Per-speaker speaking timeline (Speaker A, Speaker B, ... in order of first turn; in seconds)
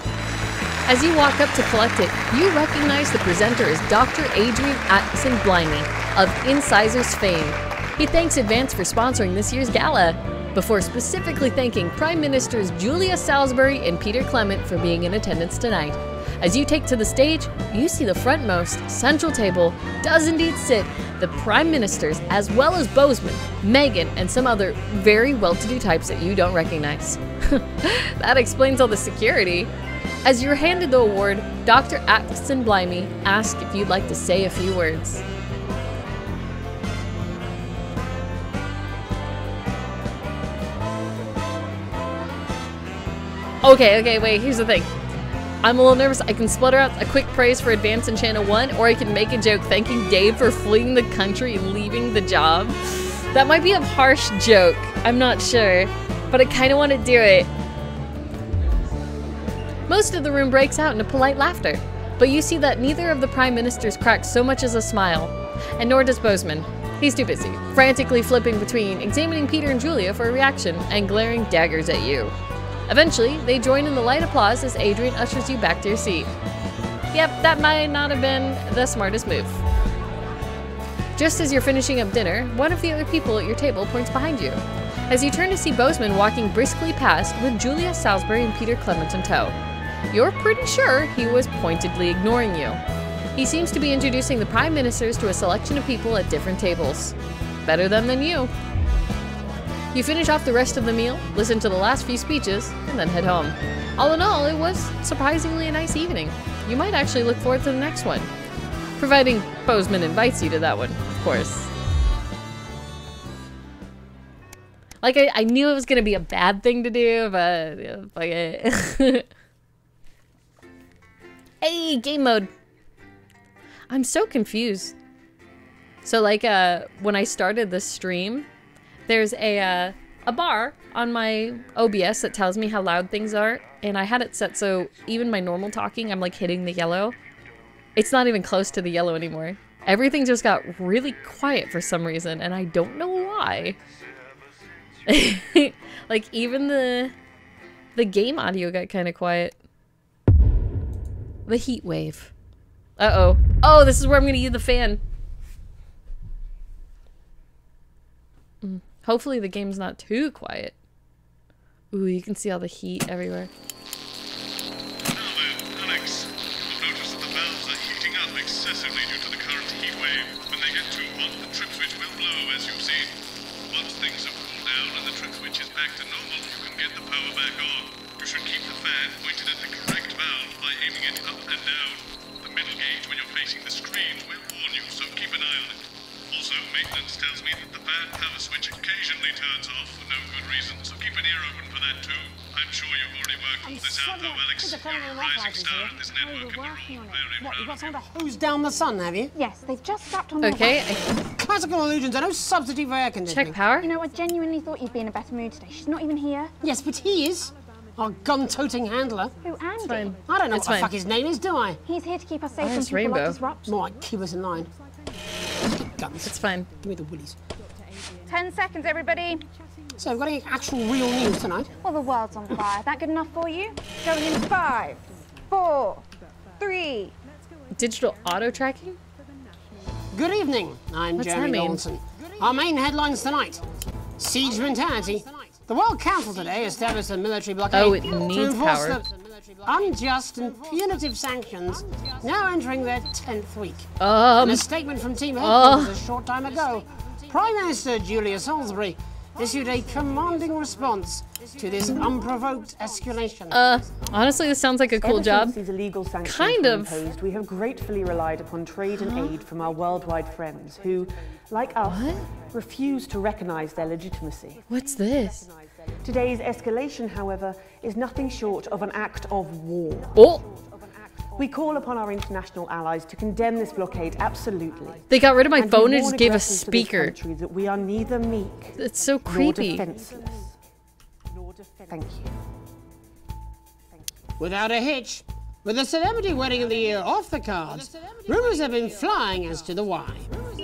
Speaker A: 0.9-29.7, 30.2-35.2, 43.6-44.9, 45.6-57.5, 59.9-72.3, 72.9-76.3, 77.1-79.6, 81.2-89.6, 90.1-92.8, 93.4-98.5, 99.9-108.3, 109.0-111.7, 115.0-119.3, 121.6-122.5, 123.9-125.0, 126.0-128.5, 129.1-137.2, 138.0-143.8, 145.1-147.2, 148.0-149.6, 151.5-152.3, 153.0-155.0, 158.6-160.8, 161.9-163.5, 200.4-201.0, 203.3-203.9, 209.8-210.9, 212.6-213.4, 216.2-216.7, 227.8-229.0, 231.2-231.8, 237.7-239.0, 244.0-244.7, 245.4-246.0, 253.5-255.6, 256.2-257.0, 259.0-259.4, 261.8-262.3, 264.7-265.5, 270.1-270.4, 275.1-277.1, 278.8-279.8
Speaker B: 165.1-173.2, 173.7-198.0
Speaker C: 193.6-196.0, 197.4-199.3, 201.3-203.6, 206.6-209.4, 210.2-211.8, 213.7-214.7, 215.5-217.4, 220.0-221.8, 230.1-253.8, 284.4-290.3
Speaker D: 196.1-197.3, 199.3-201.2, 203.8-206.5, 209.4-210.2, 211.9-213.7, 218.3-219.4, 221.8-226.1, 226.6-227.1
Speaker E: 255.0-264.7, 266.0-270.2, 271.3-280.6, 281.9-282.4